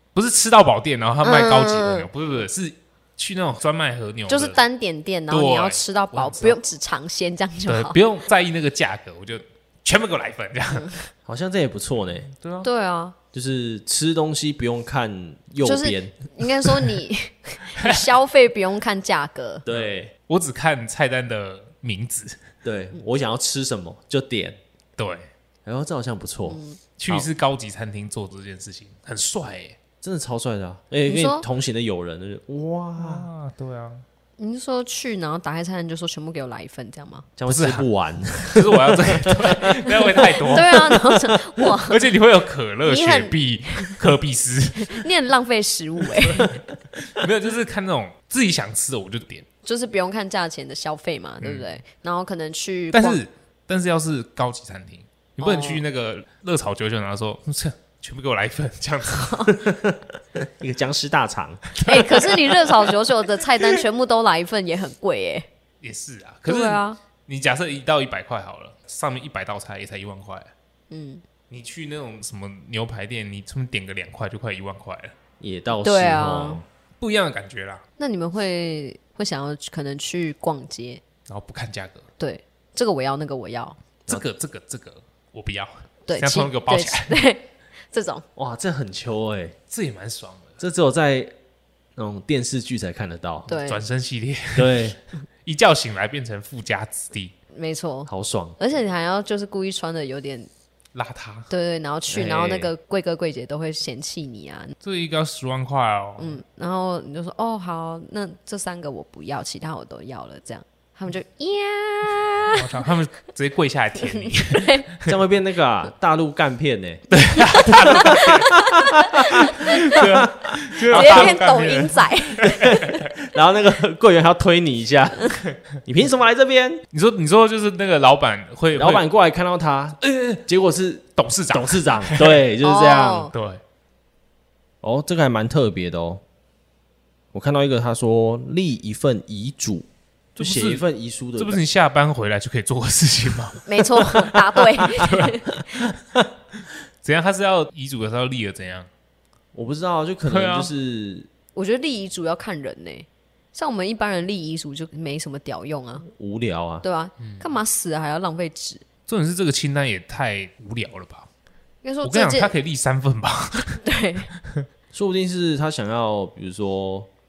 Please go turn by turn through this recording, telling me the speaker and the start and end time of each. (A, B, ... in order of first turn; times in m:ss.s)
0:00.1-0:04.6 A
0:01.2-0:02.1 B
0:04.3-0:08.0 B
0:05.3-0:06.6 A
0:07.7-0:10.9 A
0:10.7-0:11.1 B
0:11.2-0:12.3 C
0:12.3-0:12.7 A
0:12.6-0:13.2 B
0:13.3-0:16.1 C
0:15.6-0:19.6 B
0:17.8-0:18.0 A
0:19.6-0:20.1 C
0:19.7-0:22.4 A
0:22.6-0:24.6 C
0:25.0-0:25.3 A
0:25.6-0:27.3 C
0:26.5-0:26.8 B
0:27.0-0:29.8 A
0:30.0-0:33.3 C
0:31.0-0:31.4 B
0:33.0-0:34.0 A
0:34.4-0:37.3 B
0:37.4-0:39.4 C
0:37.5-0:41.0 A
0:39.8-0:42.1 B
0:41.9-0:45.1 A
0:42.8-0:44.0 B
0:44.7-0:46.5 B
0:46.2-0:49.4 A
0:49.6-0:53.2 B
0:52.9-0:59.6 A
0:55.4-0:55.8 B
0:59.1-0:59.5 B
0:59.5-1:02.2 C
1:01.8-1:05.5 B
1:05.8-1:10.5 A
1:06.4-1:07.0 B
1:10.9-1:11.2 B
1:11.5-1:15.1 A
1:15.4-1:16.6 C
1:15.8-1:16.6 B
1:17.0-1:17.8 A
1:18.0-1:21.0 B
1:21.3-1:22.0 A
1:22.2-1:23.8 B
1:24.1-1:27.2 A
1:26.1-1:28.2 B
1:28.4-1:29.6 C
1:29.7-1:30.6 A
1:30.6-1:31.3 C
1:32.0-1:33.5 C
1:33.5-1:33.8 B
1:33.5-1:34.9 A
1:34.5-1:35.0 C
1:35.4-1:37.3 A
1:37.5-1:40.5 B
1:38.1-1:38.6 C
1:40.9-1:41.5 A
1:41.5-1:44.7 B
1:42.1-1:42.7 C
1:44.8-1:46.4 A
1:46.2-1:52.8 B
1:52.5-1:55.2 A
1:54.0-1:54.9 B
1:55.1-2:01.4 C
1:57.1-2:02.8 A
1:57.5-2:00.0 B
2:00.9-2:03.0 B
2:02.6-2:06.8 C
2:06.9-2:09.0 A
2:08.7-2:13.3 C
2:10.0-2:10.4 A
2:11.2-2:12.4 A
2:12.6-2:13.3 B
2:13.3-2:13.6 A
2:14.8-2:16.2 C
2:17.3-2:21.6 C
2:20.4-2:20.8 A
2:21.4-2:25.4 A
2:23.6-2:25.8 B
2:27.0-2:28.9 A
2:29.5-2:31.3 C
2:30.2-2:30.7 A
2:31.5-2:36.0 B
2:36.1-2:36.8 C
2:36.8-2:38.8 B
2:37.2-2:37.5 A
2:39.1-2:41.3 A
2:41.8-2:42.5 B
2:42.0-2:43.8 A
2:43.8-2:44.3 B
2:44.9-2:47.1 C